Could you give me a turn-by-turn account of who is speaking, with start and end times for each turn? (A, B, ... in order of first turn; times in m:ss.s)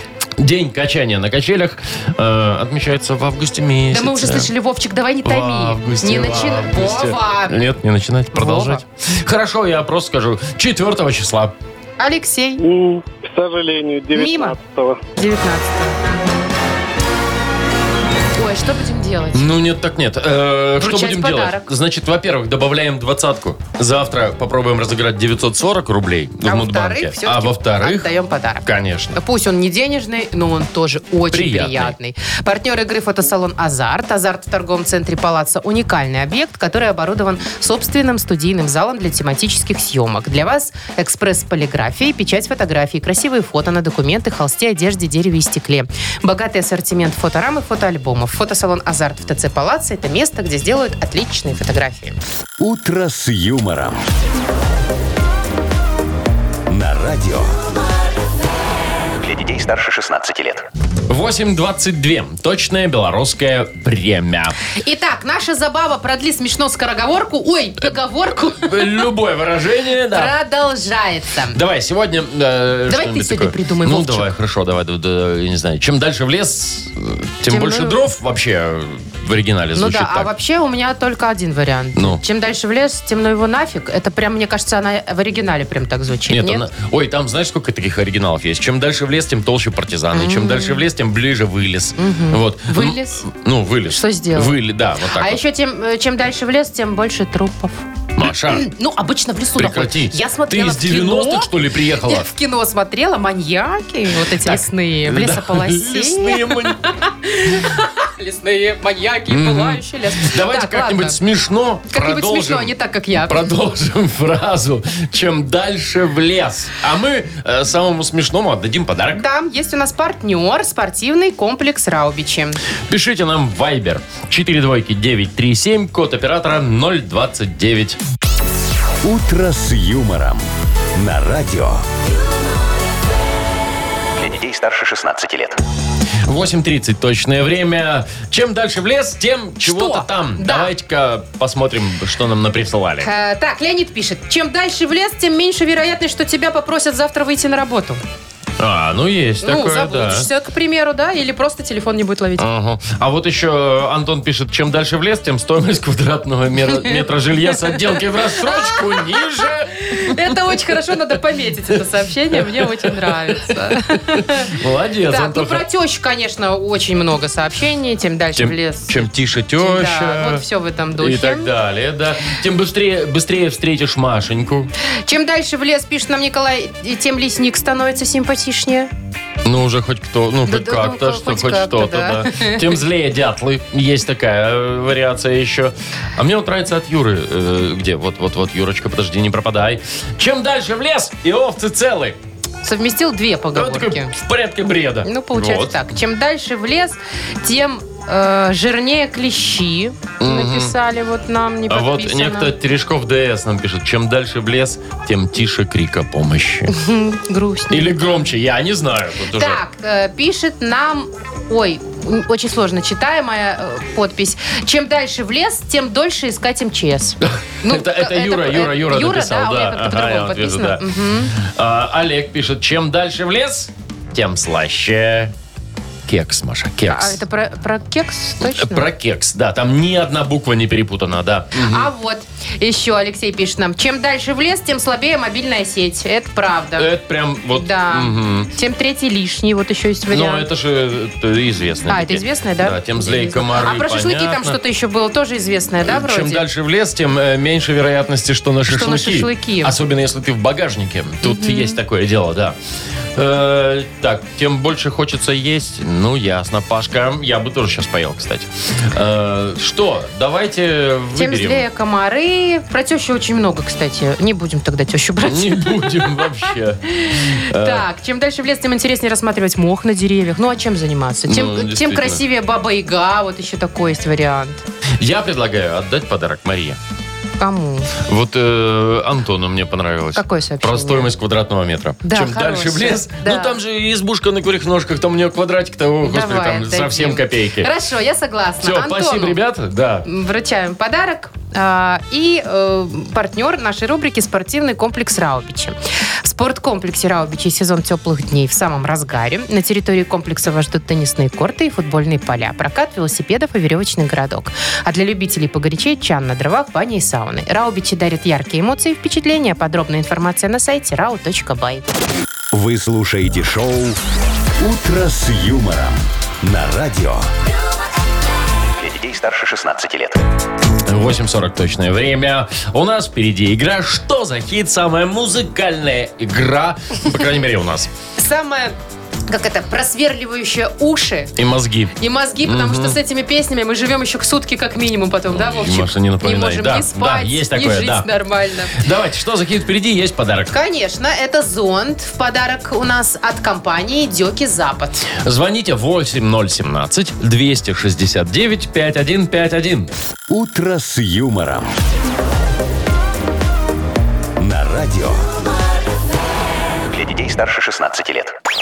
0:00.4-0:04.5 A
0:03.9-0:07.6 B
0:05.2-0:11.6 A
0:08.3-0:08.8 B
0:12.0-0:12.6 B
0:12.6-0:15.0 C
0:14.1-0:14.6 B
0:15.2-0:16.1 B
0:18.4-0:19.5 B
0:19.3-0:28.1 A
0:20.8-0:21.7 B
0:26.4-0:52.2 B
0:28.6-0:29.2 A
0:31.3-0:31.9 A
0:52.6-0:54.1 D
0:56.7-0:57.6 D
0:59.3-1:00.6 E
0:59.4-1:00.6 D
1:01.1-1:04.6 A
1:04.7-1:09.0 B
1:08.5-1:10.3 A
1:10.1-1:11.6 B
1:11.5-1:20.3 A
1:12.9-1:14.3 B
1:17.5-1:18.0 B
1:19.8-1:26.7 B
1:26.3-1:35.4 A
1:30.1-1:30.8 B
1:32.0-1:33.2 B
1:33.9-1:34.6 B
1:35.1-1:41.5 B
1:38.2-1:38.7 A
1:39.6-1:42.3 A
1:42.0-1:51.2 B
1:44.2-1:46.8 A
1:49.3-1:59.2 A
1:51.9-1:53.5 B
1:59.1-2:02.6 B
2:02.9-2:08.0 A
2:09.0-2:11.8 D
2:14.2-2:15.5 D
2:14.2-2:15.5 E
2:16.2-2:23.1 A
2:19.6-2:20.7 B
2:23.0-2:28.0 B
2:28.6-2:30.3 A
2:29.4-2:32.4 B
2:32.4-2:40.3 A
2:36.8-2:44.6 B
2:42.3-2:43.4 A
2:44.4-2:45.6 A
2:45.1-2:49.1 B
2:48.4-2:50.4 A
2:49.6-2:51.5 B
2:51.0-2:54.7 A
2:55.1-2:58.9 B
2:59.4-3:12.2 A
3:00.4-3:02.6 B
3:12.6-3:14.1 B
3:13.5-3:15.8 A
3:15.0-3:22.5 B
3:20.2-3:20.7 A
3:21.7-3:26.7 A
3:26.7-3:28.3 B
3:27.7-3:29.6 A
3:29.4-3:41.4 B
3:37.3-3:45.3 A
3:46.1-3:47.2 A
3:46.9-3:48.9 B
3:48.4-3:51.9 A
3:51.6-3:56.9 B
3:56.8-3:58.5 A
3:57.5-4:00.5 B
4:00.1-4:04.6 A
4:01.9-4:06.4 B
4:05.8-4:12.6 A
4:08.7-4:09.7 B
4:11.2-4:11.8 B
4:13.2-4:21.6 A
4:21.1-4:26.2 B
4:25.2-4:27.8 A
4:27.0-4:34.6 B
4:31.3-4:32.2 A
4:35.0-4:36.8 A
4:37.4-4:37.9 B
4:38.0-4:47.7 A
4:40.1-4:41.1 B
4:42.0-4:43.6 B
4:46.0-4:49.4 B
4:48.6-4:50.1 A
4:50.0-5:11.8 B
5:12.5-5:14.0 D
5:14.6-5:17.3 D
5:18.8-5:20.1 E
5:18.9-5:20.1 D
5:20.9-5:27.9 A
5:28.2-5:28.7 B
5:29.3-5:31.3 B
5:31.4-5:33.0 A
5:32.0-5:38.8 B
5:35.3-5:38.1 A
5:38.7-5:40.5 A
5:40.5-5:45.1 B
5:45.2-5:49.9 A
5:50.3-5:51.8 D
5:54.4-5:55.3 D
5:56.9-5:58.3 D
5:57.1-5:58.1 E